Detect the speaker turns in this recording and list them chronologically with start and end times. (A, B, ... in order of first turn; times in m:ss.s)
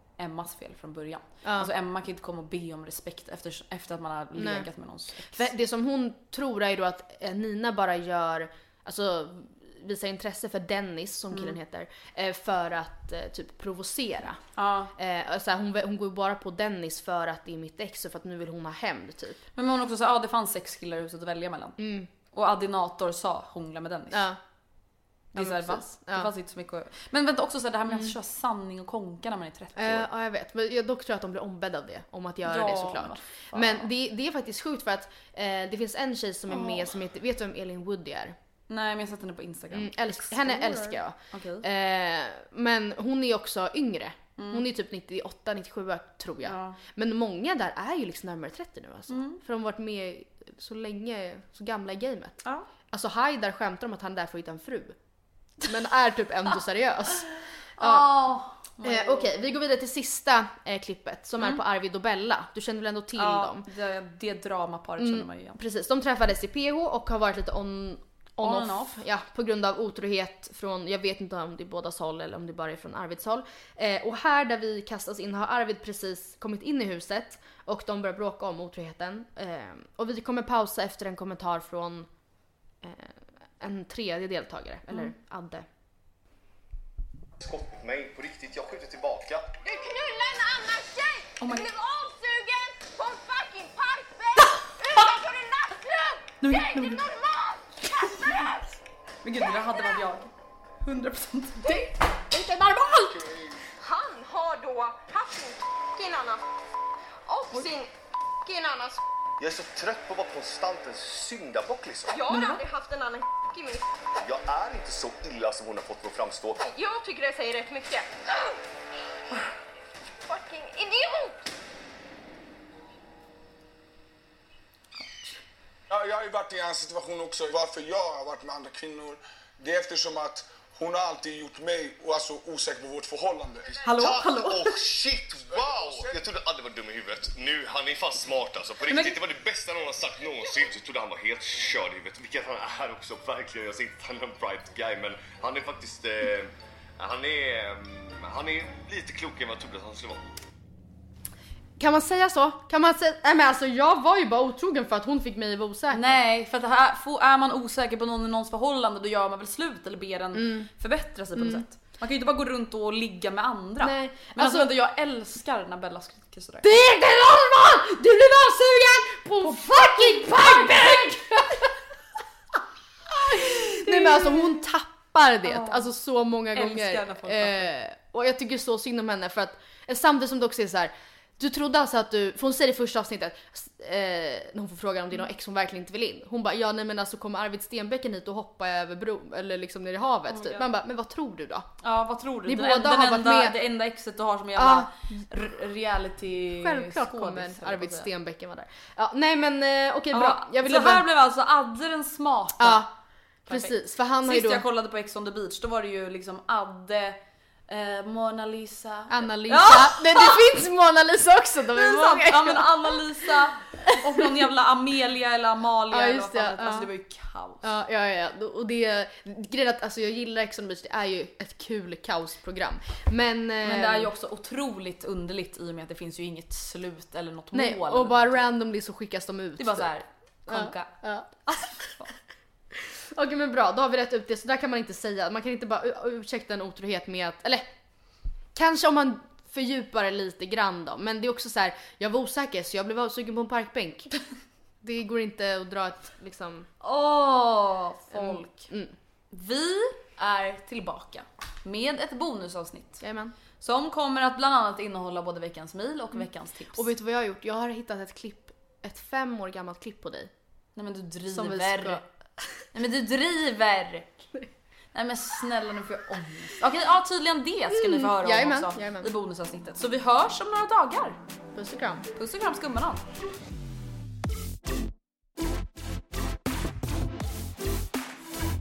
0:00.2-0:05.5 A
0:01.4-0:01.7 B
0:04.4-0:04.7 B
0:05.3-0:14.4 B
0:11.3-0:11.6 A
0:14.6-0:14.9 A
0:15.0-0:19.4 B
0:19.6-0:21.8 A
0:21.8-0:22.1 B
0:22.3-0:24.2 A
0:24.1-0:24.4 B
0:25.3-0:26.3 B
0:25.3-0:30.1 A
0:27.9-0:28.1 B
0:29.8-0:38.3 B
0:32.4-0:33.9 A
0:36.5-0:36.9 A
0:38.7-0:41.6 A
0:39.7-0:52.4 B
0:44.4-0:44.6 A
0:46.4-0:46.8 A
0:49.1-0:49.4 A
0:52.9-0:54.9 B
0:55.6-0:57.3 B
0:57.8-0:59.5 A
0:57.8-0:58.1 B
0:58.8-1:03.6 B
1:03.2-1:05.6 A
1:05.0-1:22.1 B
1:08.4-1:09.0 A
1:22.8-1:25.6 B
1:27.4-1:29.4 C
1:29.6-1:38.7 D
1:31.4-1:31.7 A
1:36.4-1:37.0 A
1:38.0-1:38.5 A
1:39.2-1:40.3 A
1:39.4-1:40.0 D
1:40.8-1:43.2 A
1:43.2-1:43.5 E
1:43.8-1:46.4 D
1:47.2-1:47.9 D
1:48.4-1:49.0 D
1:49.4-1:52.2 C
1:52.1-1:53.8 D
1:52.3-1:52.6 A
1:54.2-1:56.6 C
1:56.6-1:58.5 D
2:00.2-2:01.5 D
2:05.9-2:13.8 E
2:13.8-2:14.7 A
2:14.0-2:30.2 C
2:15.4-2:16.2 E
2:18.9-2:19.2 A
2:31.8-2:36.1 B
2:35.9-2:46.7 A
2:40.3-2:40.7 B
2:41.4-2:41.6 B
2:43.8-2:44.7 B
2:46.6-2:51.7 B
2:49.4-2:51.0 A
2:53.2-2:54.6 A
2:53.3-3:11.7 B
2:55.4-2:55.9 A
2:56.5-2:57.7 A
3:10.3-3:10.7 A
3:11.8-3:18.1 A
3:12.5-3:13.6 B
3:14.6-3:14.9 B
3:16.6-3:21.0 B
3:20.1-3:22.9 A
3:22.6-3:22.9 B
3:23.5-3:30.5 A
3:23.5-3:24.6 B
3:29.1-3:33.3 B
3:31.7-3:37.6 A
3:33.8-3:34.3 B
3:35.9-3:36.9 B
3:37.6-3:44.1 B
3:43.6-3:48.4 A
3:47.5-3:49.9 B
3:49.6-3:52.1 A
3:50.5-3:51.3 B
3:53.1-3:57.6 B
3:58.5-4:04.1 B
4:04.8-4:06.7 B
4:06.8-4:08.7 A
4:08.1-4:08.9 B
4:09.3-4:13.0 A
4:13.0-4:13.3 B
4:13.6-4:16.9 A
4:16.2-4:20.3 B
4:20.8-4:22.0 A
4:21.3-4:22.0 B
4:22.7-4:24.1 A
4:24.9-4:31.2 A
4:27.7-4:29.1 B
4:31.5-4:32.0 B
4:32.2-4:33.0 A